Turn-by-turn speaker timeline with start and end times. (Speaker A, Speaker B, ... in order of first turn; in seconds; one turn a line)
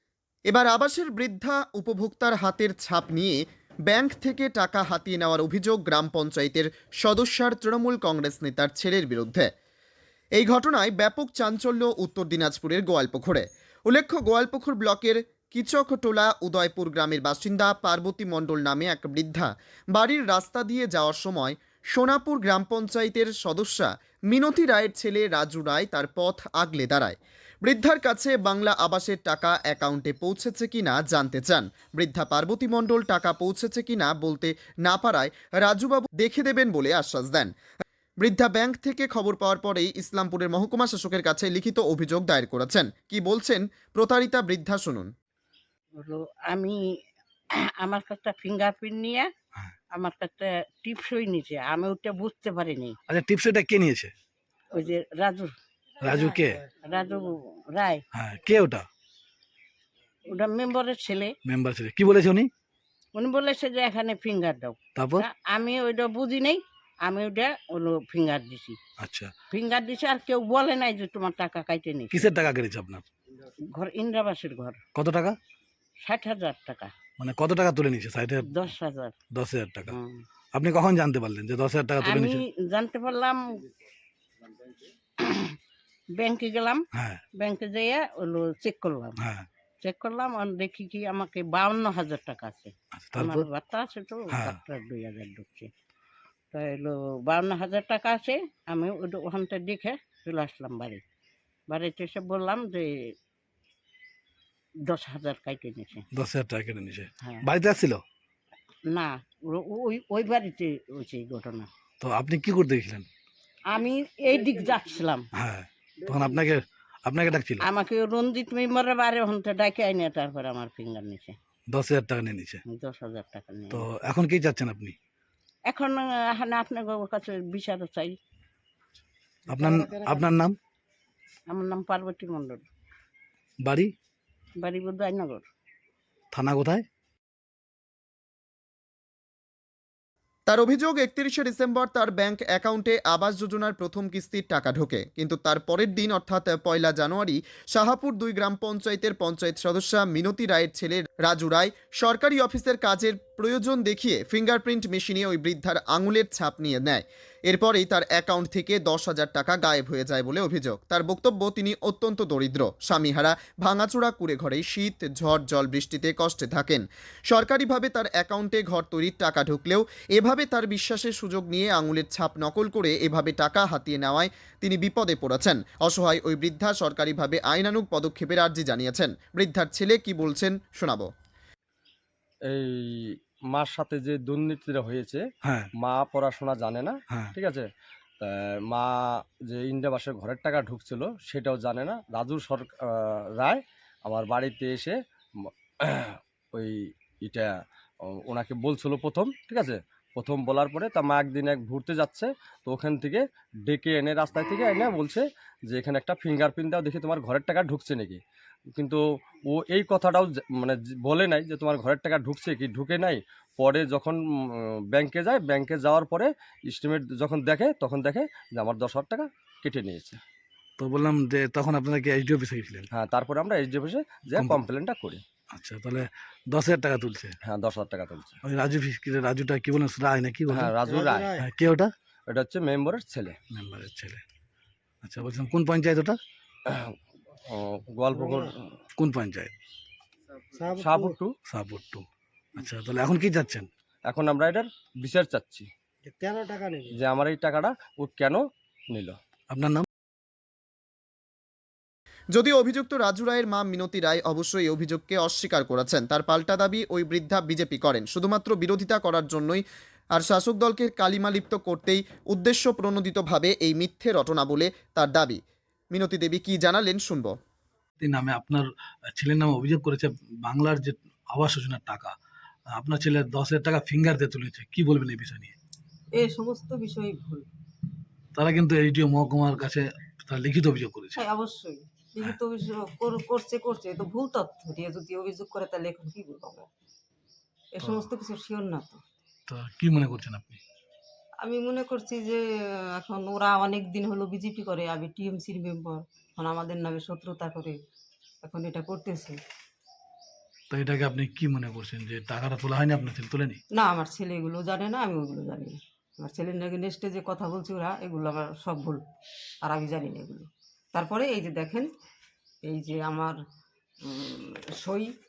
Speaker A: 0.5-9.5
Speaker A: 10.4-37.5
Speaker A: 38.2-45.1
Speaker B: 46.0-46.8
Speaker B: 47.8-49.3
Speaker B: 49.9-53.0
Speaker C: 53.1-54.1
Speaker B: 54.7-55.5
Speaker C: 56.0-56.6
Speaker B: 56.8-58.0
Speaker C: 58.1-58.9
Speaker B: 60.3-61.3
Speaker C: 61.5-62.5
Speaker B: 63.1-68.8
Speaker C: 65.0-65.2
Speaker C: 69.0-69.3
Speaker B: 69.5-72.3
Speaker C: 72.1-73.1
Speaker B: 73.7-74.8
Speaker C: 75.0-75.4
Speaker B: 76.0-76.9
Speaker C: 77.2-78.5
Speaker B: 78.5-79.2
Speaker C: 79.3-80.0
Speaker B: 79.9-80.2
Speaker C: 80.5-82.4
Speaker B: 82.0-83.6
Speaker B: 85.2-85.5
Speaker B: 86.1-86.8
Speaker C: 87.0-87.2
Speaker B: 87.4-89.2
Speaker C: 89.2-89.5
Speaker B: 89.8-95.7
Speaker C: 93.0-93.5
Speaker C: 94.3-94.6
Speaker B: 96.5-101.0
Speaker B: 101.7-102.9
Speaker B: 104.9-106.1
Speaker C: 106.2-108.0
Speaker B: 108.9-111.7
Speaker C: 112.0-113.1
Speaker B: 113.7-115.3
Speaker C: 115.4-117.7
Speaker B: 117.6-121.4
Speaker C: 121.7-122.6
Speaker B: 122.7-123.8
Speaker C: 123.7-125.0
Speaker B: 125.7-128.2
Speaker C: 129.5-130.6
Speaker D: 129.5-130.3
Speaker B: 131.5-132.7
Speaker C: 133.6-133.9
Speaker B: 134.6-135.5
Speaker C: 136.3-136.8
Speaker A: 140.5-181.1
Speaker E: 182.5-182.8
Speaker E: 183.5-185.2
Speaker E: 185.8-187.6
Speaker E: 188.2-188.9
Speaker E: 189.5-194.9
Speaker E: 195.4-197.5
Speaker E: 198.3-208.2
Speaker E: 208.8-214.2
Speaker E: 214.9-220.2
Speaker C: 220.8-222.9
Speaker E: 222.9-225.2
Speaker C: 224.3-224.6
Speaker C: 225.5-227.3
Speaker E: 227.4-228.3
Speaker C: 228.4-230.7
Speaker E: 230.5-231.2
Speaker D: 230.8-231.4
Speaker C: 231.3-231.9
Speaker E: 232.3-233.3
Speaker C: 233.5-234.2
Speaker C: 235.0-236.2
Speaker E: 236.7-236.9
Speaker E: 237.5-238.7
Speaker D: 238.1-238.5
Speaker C: 239.0-239.5
Speaker D: 240.6-241.2
Speaker E: 240.8-241.3
Speaker C: 241.5-242.0
Speaker C: 242.6-243.7
Speaker E: 244.1-245.7
Speaker D: 246.1-247.0
Speaker E: 246.9-248.4
Speaker E: 248.9-249.2
Speaker C: 249.5-249.8
Speaker A: 252.3-259.6
Speaker A: 260.1-265.4
Speaker A: 265.9-267.3
Speaker C: 268.0-268.6
Speaker C: 269.2-272.1
Speaker C: 272.8-275.6
Speaker F: 276.1-277.5
Speaker C: 278.3-281.2
Speaker F: 281.1-286.7
Speaker F: 287.7-289.0
Speaker C: 289.5-290.6
Speaker F: 291.4-292.4
Speaker F: 293.0-297.8
Speaker F: 298.4-299.4
Speaker C: 300.7-303.6
Speaker F: 303.7-309.0
Speaker F: 309.6-311.9
Speaker F: 312.6-313.4
Speaker F: 314.1-315.1